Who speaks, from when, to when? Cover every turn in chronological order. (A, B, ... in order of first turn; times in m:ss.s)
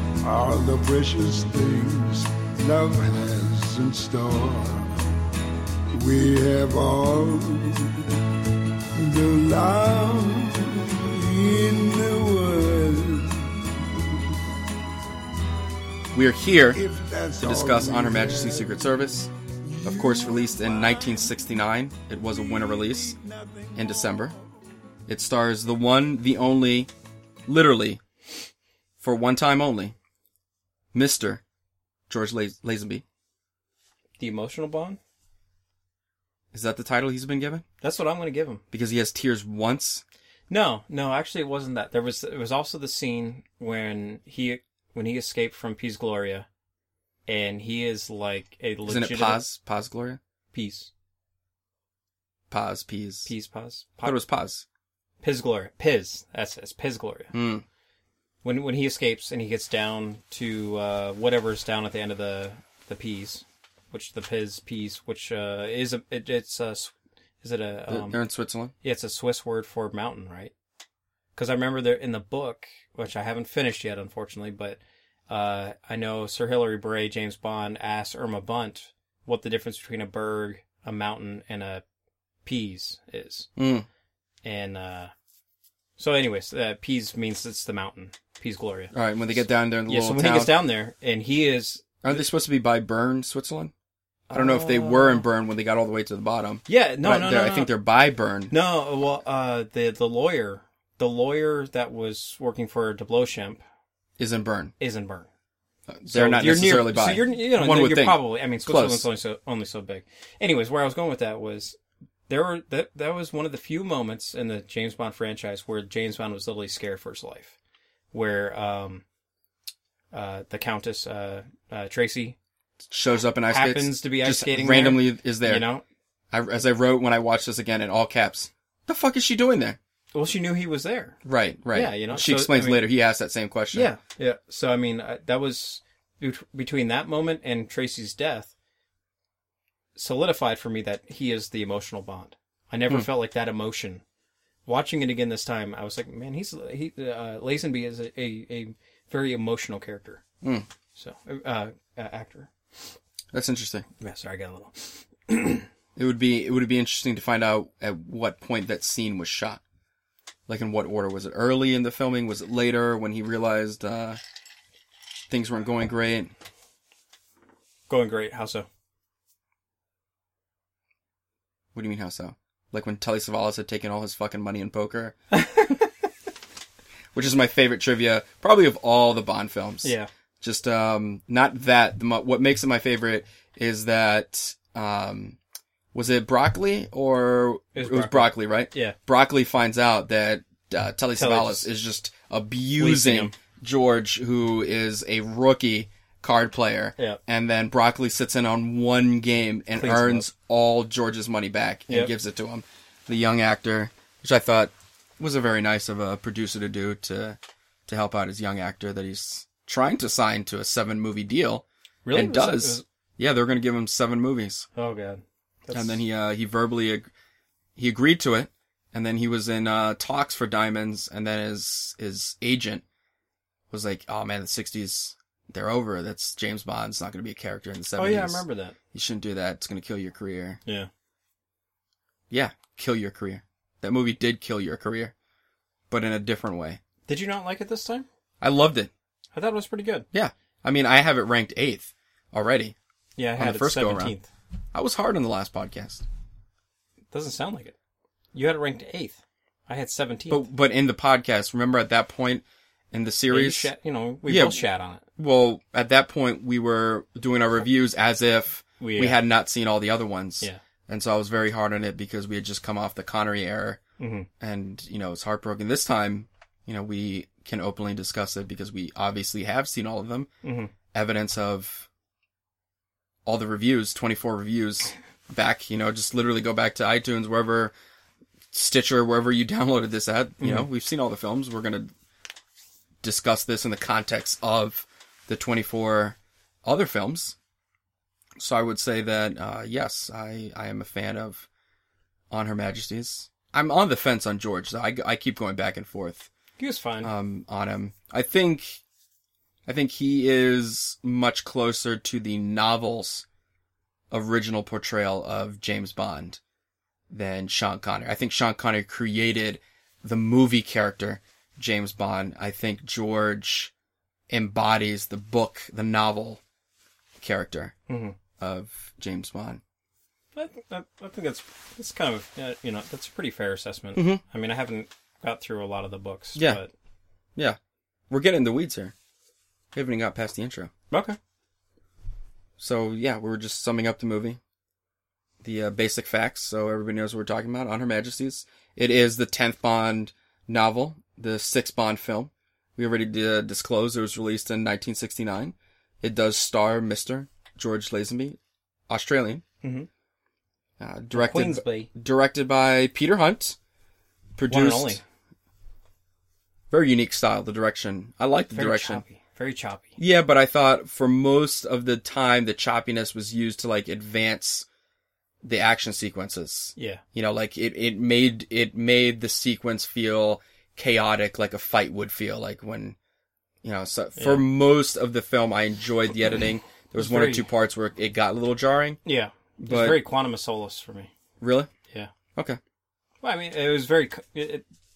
0:00.2-0:05.0 A
0:05.9-0:08.0 A
0:09.0-0:14.6 A
0:16.1-0:16.8 B
0:16.7-0:21.4 A
0:17.4-0:19.3 B
0:19.8-0:23.2 B
0:22.2-0:24.5 A
0:23.8-0:24.4 B
0:25.1-0:26.9 B
0:27.5-0:28.0 B
0:29.0-0:30.0 B
0:30.9-0:31.4 B
0:32.1-0:33.0 B
0:34.2-0:35.0 C
0:36.5-0:37.6 B
0:37.8-0:38.6 C
0:38.7-0:40.0 B
0:40.5-0:46.5 C
0:47.3-0:49.4 C
0:48.9-0:50.2 B
0:50.5-0:50.9 C
0:52.5-0:53.3 B
0:53.3-0:54.2 C
0:54.0-0:54.6 B
0:55.2-0:57.3 C
0:57.3-0:57.6 B
0:58.4-1:08.2 C
1:07.9-1:08.7 B
1:08.8-1:10.5 C
1:11.4-1:21.8 C
1:22.4-1:23.5 C
1:23.6-1:23.9 B
1:24.4-1:25.1 C
1:26.0-1:32.2 C
1:28.9-1:30.6 B
1:32.0-1:33.7 B
1:34.3-1:38.5 B
1:34.3-1:35.3 C
1:36.7-1:37.7 C
1:38.5-1:43.6 C
1:44.2-1:44.7 B
1:44.8-1:45.3 C
1:45.9-1:49.1 B
1:46.1-1:51.8 C
1:52.3-1:57.5 C
1:58.1-1:59.0 C
2:00.1-2:02.4 C
2:02.9-2:05.7 B
2:03.5-2:05.8 C
2:06.3-2:09.8 B
2:10.1-2:11.2 C
2:11.2-2:13.9 B
2:11.7-2:12.9 C
2:13.7-2:18.5 C
2:20.0-2:24.0 C
2:24.7-2:30.2 C
2:30.4-2:30.7 B
2:31.0-2:32.5 C
2:33.3-2:33.8 B
2:34.0-2:35.7 C
2:36.0-2:39.6 B
2:40.5-2:44.2 B
2:45.3-2:46.3 B
2:47.9-2:48.7 C
2:51.7-2:55.2 B
2:55.3-2:55.9 C
2:57.1-3:05.4 B
2:59.8-3:00.1 C
3:05.9-3:34.7 B
3:07.8-3:09.0 C
3:11.2-3:11.7 C
3:12.8-3:13.4 C
3:19.8-3:20.3 C
3:32.0-3:32.8 C
3:34.8-3:36.0 C
3:35.7-3:37.1 B
3:37.8-3:42.8 B
3:43.7-3:50.6 B
3:48.0-3:48.8 C
3:52.3-3:55.1 B
3:55.9-3:56.8 B
3:57.1-3:58.1 C
3:58.4-3:58.9 B
3:59.3-4:00.1 C
4:00.1-4:02.8 B
4:03.2-4:04.3 C
4:03.4-4:04.1 B
4:04.7-4:06.0 B
4:07.1-4:07.8 C
4:08.3-4:10.4 C
4:10.3-4:13.7 B
4:13.3-4:15.0 C
4:14.3-4:14.6 B
4:15.2-4:23.8 B
4:18.8-4:19.2 C
4:24.0-4:24.3 C
4:24.4-4:30.3 B
4:30.4-4:30.7 C
4:30.9-4:31.9 B
4:33.3-4:37.7 B
4:38.5-4:41.9 B
4:40.4-4:40.7 C
4:43.0-4:47.4 B
4:48.4-4:51.5 B
4:52.3-4:56.3 B
4:56.6-4:57.1 C
4:57.0-4:58.8 B
4:59.7-5:03.2 B
5:04.1-5:06.4 B
5:07.1-5:13.7 B
5:14.3-5:16.4 B
5:17.2-5:17.8 B
5:17.9-5:18.2 C
5:18.4-5:19.6 B
5:20.4-5:26.7 C
5:24.0-5:24.2 B
5:26.4-5:26.6 B
5:28.1-5:28.9 B
5:29.7-5:30.7 B
5:30.9-5:31.2 C
5:32.6-5:34.4 B
5:35.4-5:48.4 B
5:48.9-5:49.4 B
5:49.6-5:49.9 C
5:50.8-5:53.6 B
5:51.1-5:51.9 C
5:54.4-5:55.0 B
5:54.5-5:55.0 C
5:56.7-5:59.0 B
5:58.5-6:00.0 C
6:00.0-6:04.7 B
6:05.4-6:13.0 B
6:06.8-6:07.0 C
6:13.6-6:19.0 B
6:14.2-6:14.4 C
6:17.0-6:17.5 C
6:19.0-6:21.1 C
6:19.6-6:20.0 B
6:21.4-6:21.7 B
6:23.2-6:24.6 C